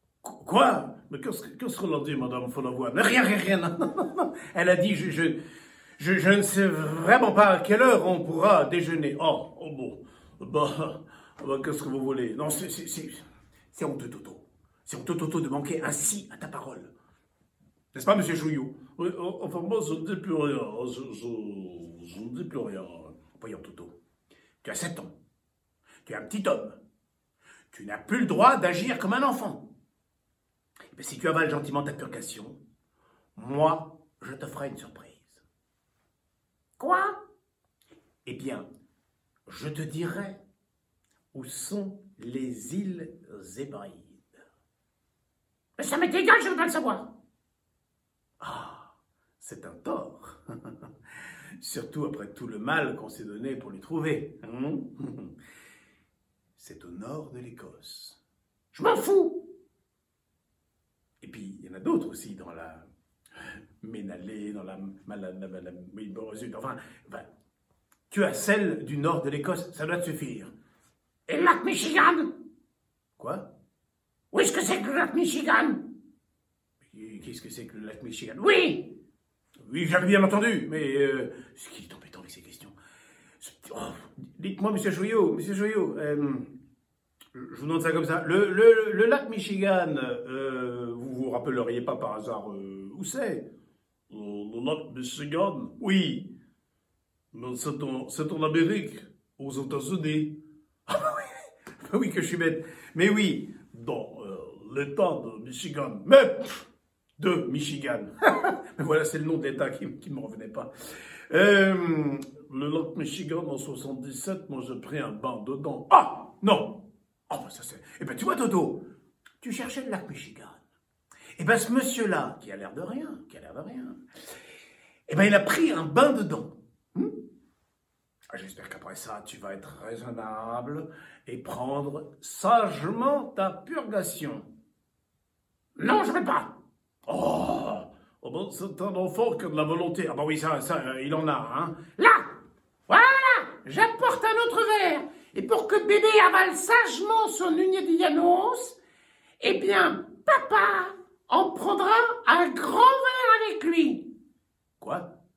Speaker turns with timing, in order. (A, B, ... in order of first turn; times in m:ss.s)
0:00.2-0:01.1 A
0:01.1-0:02.9 B
0:02.8-0:05.4 A
0:06.0-0:09.5 A
0:09.5-0:12.1 B
0:12.0-0:16.9 A
0:17.9-0:18.8 A
0:19.0-0:23.2 B
0:23.3-0:23.9 A
0:24.6-0:25.1 A
0:26.1-0:26.8 A
0:27.7-0:29.6 A
0:31.0-0:32.6 A
0:33.4-0:35.4 A
0:36.8-0:37.2 C
0:38.2-0:38.7 A
0:39.5-0:40.4 A
0:41.3-0:44.2 A
0:45.8-0:47.1 C
0:48.4-0:50.7 A
0:51.6-0:55.3 A
0:56.6-0:58.2 A
0:58.7-0:59.4 C
1:01.2-1:02.9 A
1:03.8-1:07.3 A
1:08.1-1:10.5 A
1:11.3-1:12.3 C
1:13.2-1:13.5 A
1:14.3-1:15.8 C
1:16.8-1:18.4 A
1:18.4-1:18.9 C
1:19.6-1:22.8 A
1:23.4-1:26.5 A
1:27.3-1:33.4 A
1:34.1-1:35.8 B
1:35.8-1:36.3 A
1:37.3-1:40.3 B
1:40.9-1:43.7 A
1:43.7-1:46.1 B
1:46.1-1:46.5 A
1:47.2-1:50.7 A
1:51.3-1:52.3 A
1:52.5-1:55.9 B
1:55.9-1:56.8 A
1:57.3-1:58.8 A
1:59.4-2:00.6 A
2:01.4-2:04.0 A
2:05.1-2:06.6 A
2:08.3-2:14.5 A
2:15.8-2:16.5 C
2:17.1-2:17.8 A
2:18.2-2:19.9 B
2:19.9-2:21.8 A
2:22.0-2:22.3 C
2:22.9-2:28.8 C
2:29.4-2:34.0 C
2:34.8-2:35.1 A